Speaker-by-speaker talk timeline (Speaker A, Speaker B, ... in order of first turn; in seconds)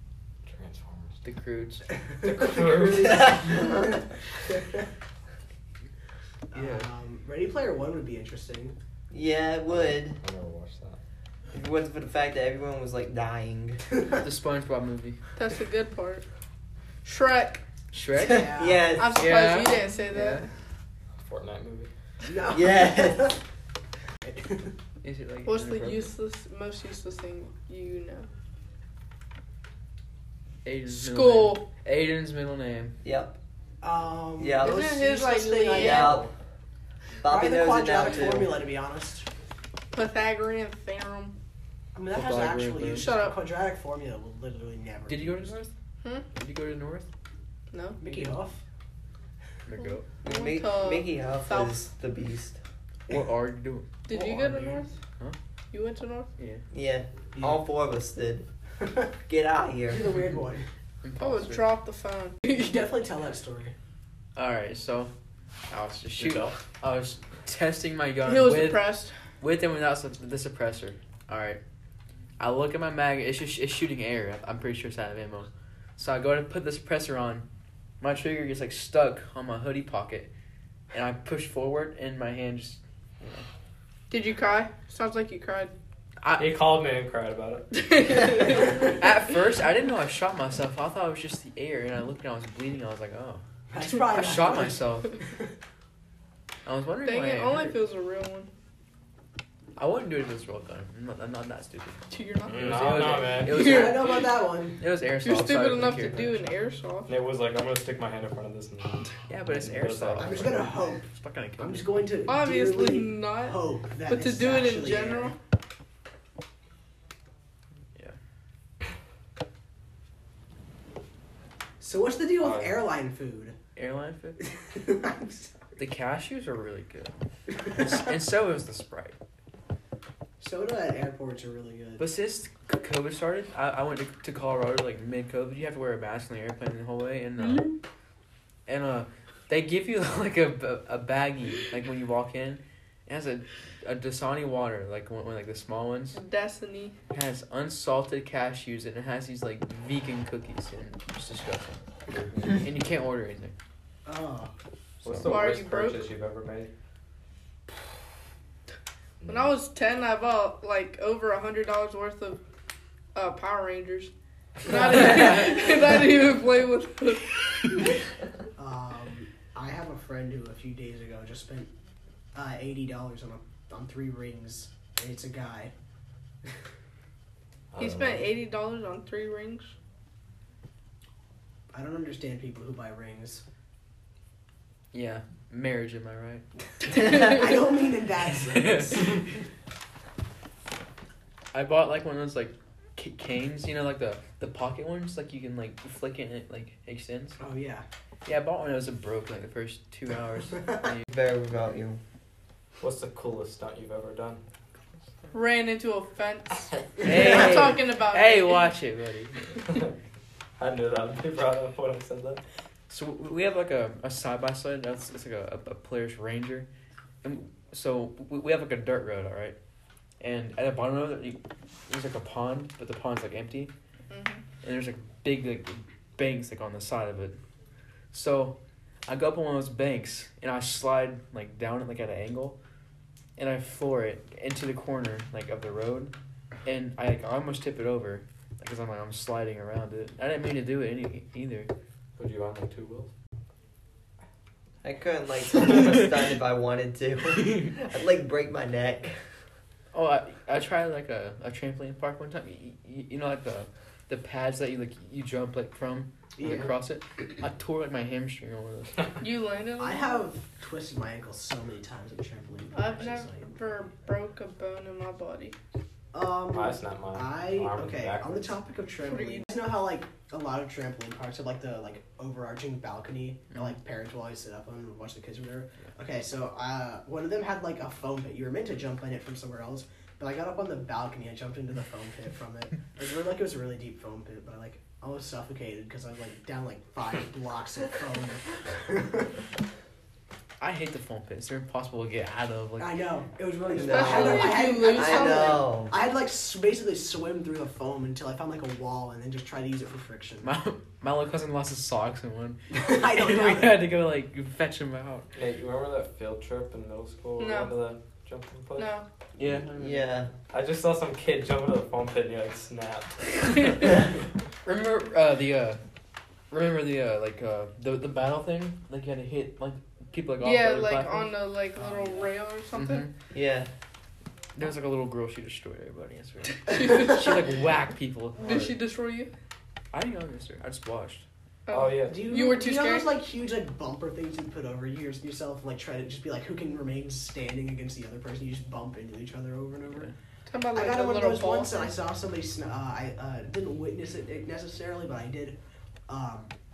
Speaker A: 0.5-1.2, 2.2-3.5, 9.7-11.0, 21.2-21.9, 66.2-66.6, 86.4-87.7, 102.5-103.7, 107.1-110.6, 122.4-122.8, 152.1-152.6, 155.0-156.7, 159.2-159.6, 177.7-178.3, 202.8-204.4, 209.7-209.9, 210.6-212.4, 242.2-243.1, 266.5-268.6, 305.3-309.6, 310.5-313.7, 331.7-332.3
Speaker B: 1.2-1.9, 6.5-6.9, 14.2-15.2, 17.9-18.5, 19.1-20.5, 25.0-26.1, 30.6-33.0, 42.1-43.1, 45.1-45.7, 46.3-47.1, 49.7-50.1, 53.1-53.9, 56.4-56.6, 61.0-61.8, 64.3-65.1, 65.7-71.6, 72.4-77.5, 78.0-80.3, 80.9-83.5, 86.2-86.6, 88.8-93.4, 94.0-95.2, 96.7-97.8, 99.8-102.0, 102.5-106.5, 109.3-111.9, 123.8-124.4, 125.8-129.2, 132.0-137.7, 138.7-146.2, 147.1-151.8, 152.5-153.6, 184.9-186.4, 188.3-189.3, 191.5-197.4, 198.2-201.1, 207.0-209.6, 212.9-216.7, 217.2-219.6, 220.2-223.7, 224.6-227.4, 228.1-228.6, 229.1-232.6, 233.4-236.1, 236.7-241.7, 247.4-247.7, 249.9-259.1, 273.5-273.8, 290.6-293.0, 300.4-305.3, 309.4-310.1, 314.6-315.8, 316.5-321.3, 322.8-323.1, 324.6-328.8, 329.9-331.2
Speaker C: 2.5-3.0, 3.6-4.0, 6.5-8.8, 18.2-18.9, 22.2-23.3, 24.2-24.7, 33.8-36.3, 37.3-39.3, 41.9-45.4, 48.0-48.6, 54.1-54.9, 57.4-57.6, 58.8-59.1, 59.9-60.7, 62.5-63.8, 93.7-94.8, 103.5-104.8, 110.2-111.0, 111.6-115.3, 121.8-123.6, 124.7-125.5, 130.4-132.1, 154.1-154.6, 168.6-171.7, 172.3-175.7, 181.7-183.4, 187.0-189.2, 197.4-197.9, 256.4-256.7, 259.8-263.5, 266.1-289.3, 292.8-300.5, 302.7-303.9, 321.8-322.3, 332.0-340.1, 340.7-345.6, 346.1-346.5
Speaker D: 3.0-4.0, 9.1-10.2, 11.5-13.8, 18.6-19.2, 22.5-23.4, 33.0-33.4, 34.4-34.8, 35.7-36.3, 37.2-38.6, 50.2-52.6, 56.7-58.5, 59.3-60.1, 201.1-202.0, 244.8-249.4, 293.8-295.9, 309.7-310.3, 323.3-323.7
Speaker E: 15.4-16.3, 17.0-17.6, 19.0-20.5, 25.5-28.3, 30.9-31.6, 34.6-36.2, 39.9-41.4, 42.9-43.4, 47.7-48.0, 50.2-51.9, 54.1-55.0, 55.7-56.3, 61.2-62.6, 68.2-69.2, 84.1-85.7, 87.7-89.2, 97.0-98.5, 102.1-104.2, 105.2-107.1, 112.3-115.3, 137.4-137.8, 146.1-146.9, 155.2-156.0, 159.3-162.4, 163.1-164.1, 164.6-168.0, 177.8-179.7, 186.9-187.6, 205.3-208.7, 224.1-224.4, 259.2-260.3, 262.7-265.6, 269.1-269.5, 293.8-295.6, 307.4-307.8, 308.8-309.1, 320.4-323.1, 326.7-327.5, 328.4-329.3, 331.7-333.1, 340.5-341.9